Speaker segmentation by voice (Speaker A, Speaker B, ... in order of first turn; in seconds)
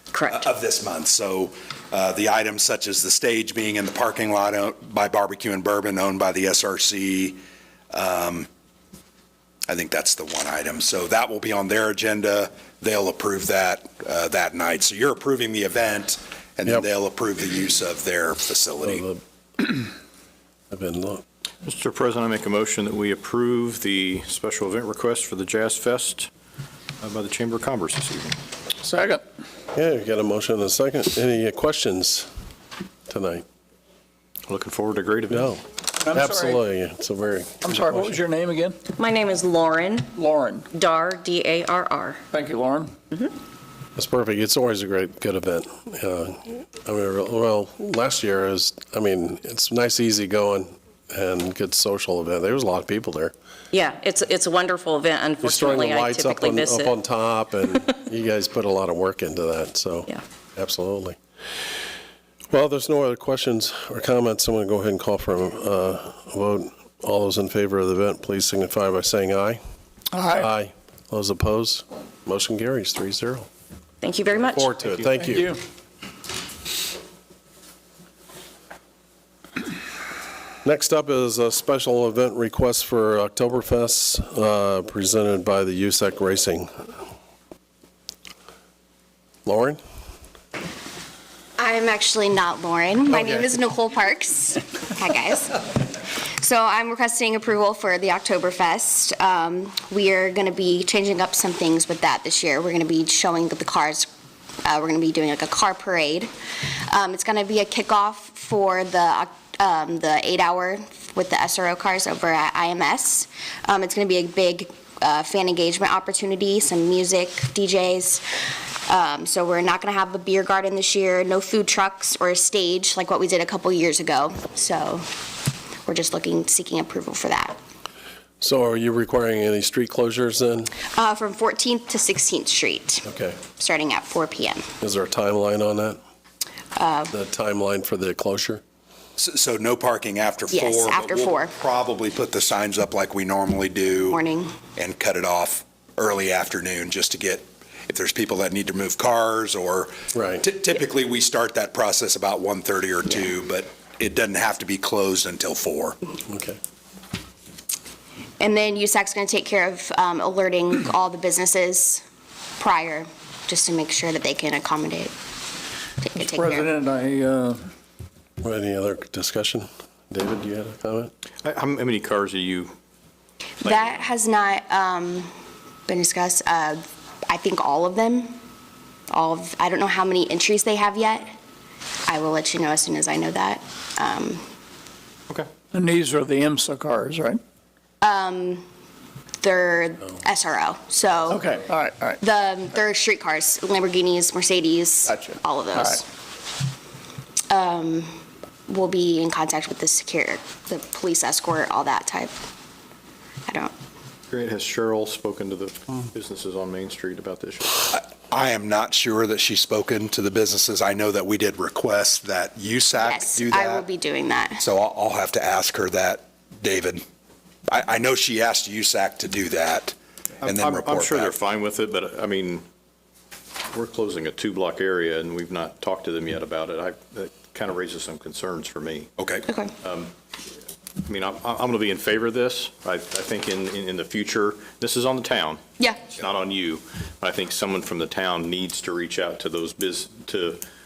Speaker A: 0.1-0.5, 38.9-40.1, 40.7-42.2, 53.7-57.0, 74.0-74.7
Speaker B: 0.2-7.4, 7.9-8.5, 9.7-19.1, 139.2-144.2, 144.8-156.0, 207.9-213.9, 214.6-217.0, 217.7-221.3, 229.2-229.5
Speaker C: 18.8-19.2, 20.7-21.2, 29.7-32.3, 33.1-33.5, 35.3-38.2, 44.0-53.3, 55.4-61.2, 62.5-69.6, 70.3-73.5, 74.3-75.5, 80.6-86.7, 89.5-89.8, 93.1-93.5, 128.4-130.7, 133.1-133.4, 134.8-136.0, 137.1-138.6, 150.1-150.4, 156.3-156.6, 168.4-171.1
Speaker D: 21.6-26.3, 27.0-28.4, 34.5-35.5, 171.4-172.7, 173.6-174.1, 204.3-207.9, 220.4-222.7, 223.7-229.1, 229.8-230.1, 231.1-240.6
Speaker E: 28.8-29.2, 36.0-36.6, 37.6-38.8, 40.1-40.7, 42.3-43.0, 70.1-70.5, 75.2-75.6, 166.2-167.7, 185.7-187.4, 191.3-192.2, 195.1-196.0
Speaker F: 91.6-104.1, 104.7-118.2, 118.9-125.0, 125.8-127.5, 130.9-134.7, 136.8-137.1, 140.5-141.5, 144.1-144.5, 158.4-162.0, 162.6-165.1, 166.0-166.7, 173.6-175.3, 175.9-178.3, 179.1-181.3, 182.1-184.4, 188.0-188.7, 189.4-191.6, 192.2-196.1, 197.5-198.1, 198.7-202.3, 203.5-203.7, 213.0-214.6, 229.5-229.7, 235.8-236.1